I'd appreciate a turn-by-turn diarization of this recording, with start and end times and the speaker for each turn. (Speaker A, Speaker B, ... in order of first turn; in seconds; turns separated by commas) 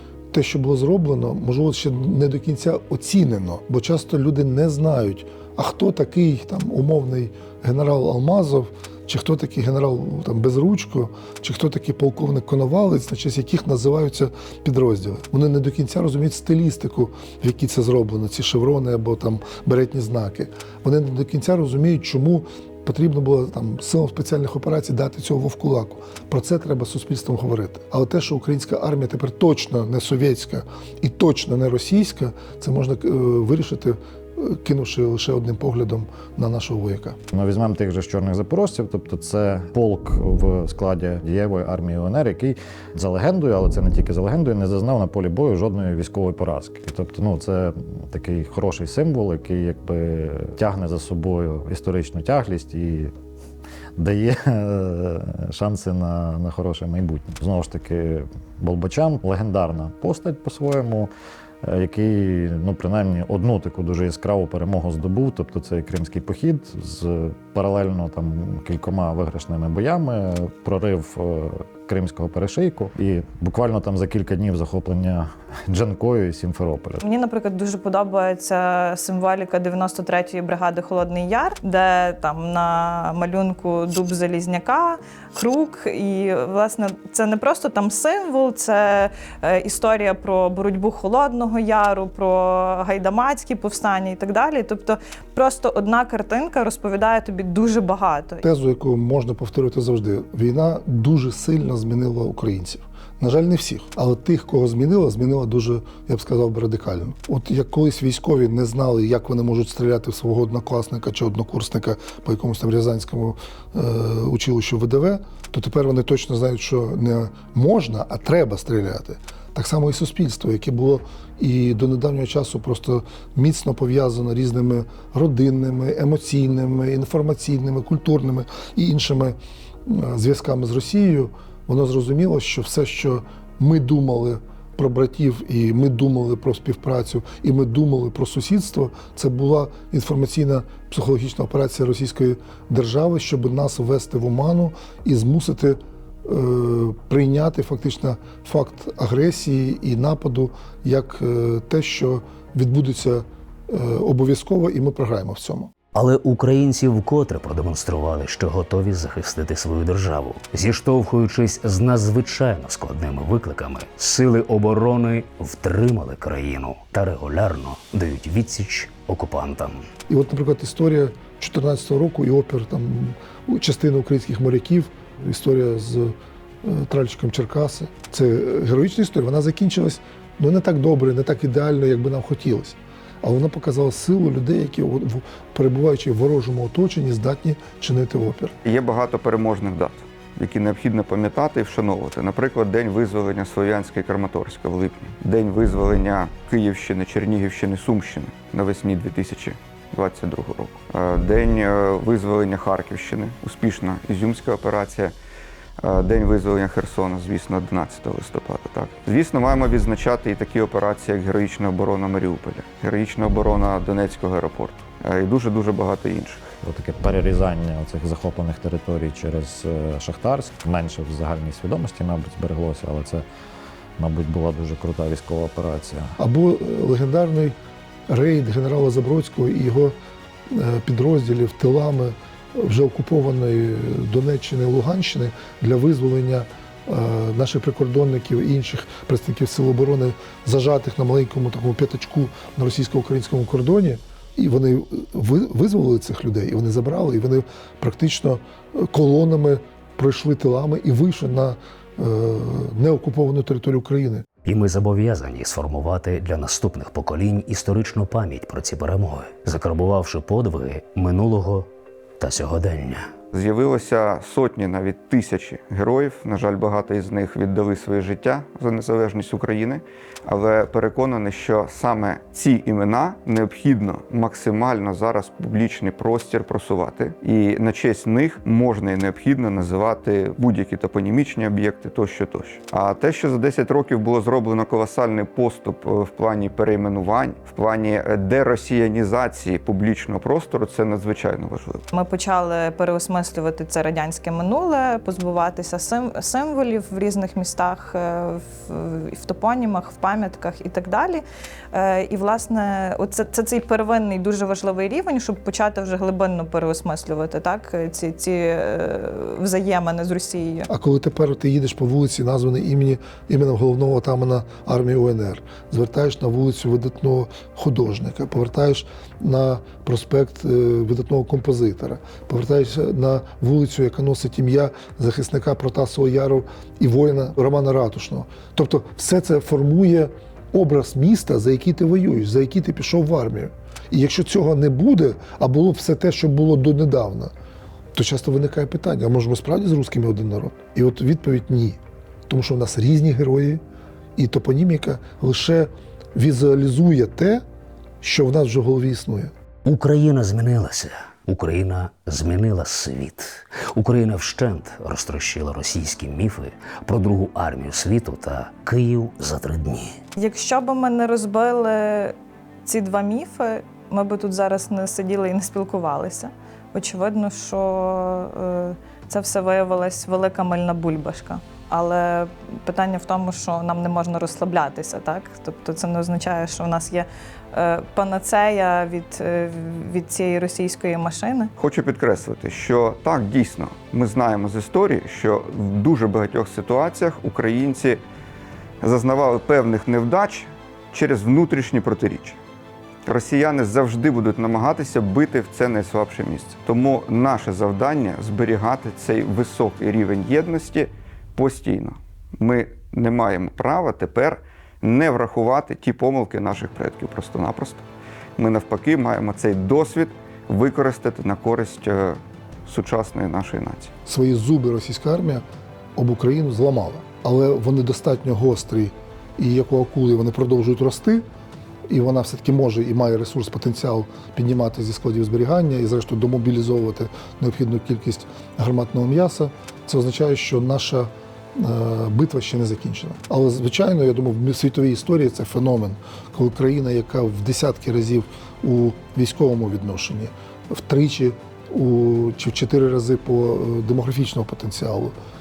Speaker A: 0.3-37.2, Speaker B: 37.3-53.1, Speaker B: 54.0-61.1, Speaker B: 61.6-77.0, Speaker C: 77.0-98.4, Speaker A: 98.4-155.7, Speaker D: 155.9-169.8, Speaker A: 170.1-188.5, Speaker E: 188.6-205.1, Speaker E: 205.8-216.4, Speaker B: 216.6-223.2, Speaker B: 224.0-226.1, Speaker A: 226.2-227.6, Speaker A: 228.1-229.9, Speaker A: 230.5-254.2, Speaker D: 254.4-261.7, Speaker D: 262.2-263.1, Speaker E: 263.3-291.8, Speaker C: 291.9-310.7, Speaker A: 310.7-337.3, Speaker A: 337.9-343.6, Speaker A: 344.2-347.4, Speaker A: 348.0-349.3, Speaker D: 349.6-359.9, Speaker C: 360.2-381.5, Speaker E: 381.6-388.0, Speaker E: 388.8-392.4, Speaker E: 393.1-407.9, Speaker E: 408.4-413.9, Speaker A: 414.1-415.4, Speaker A: 415.9-421.2, Speaker A: 421.9-445.1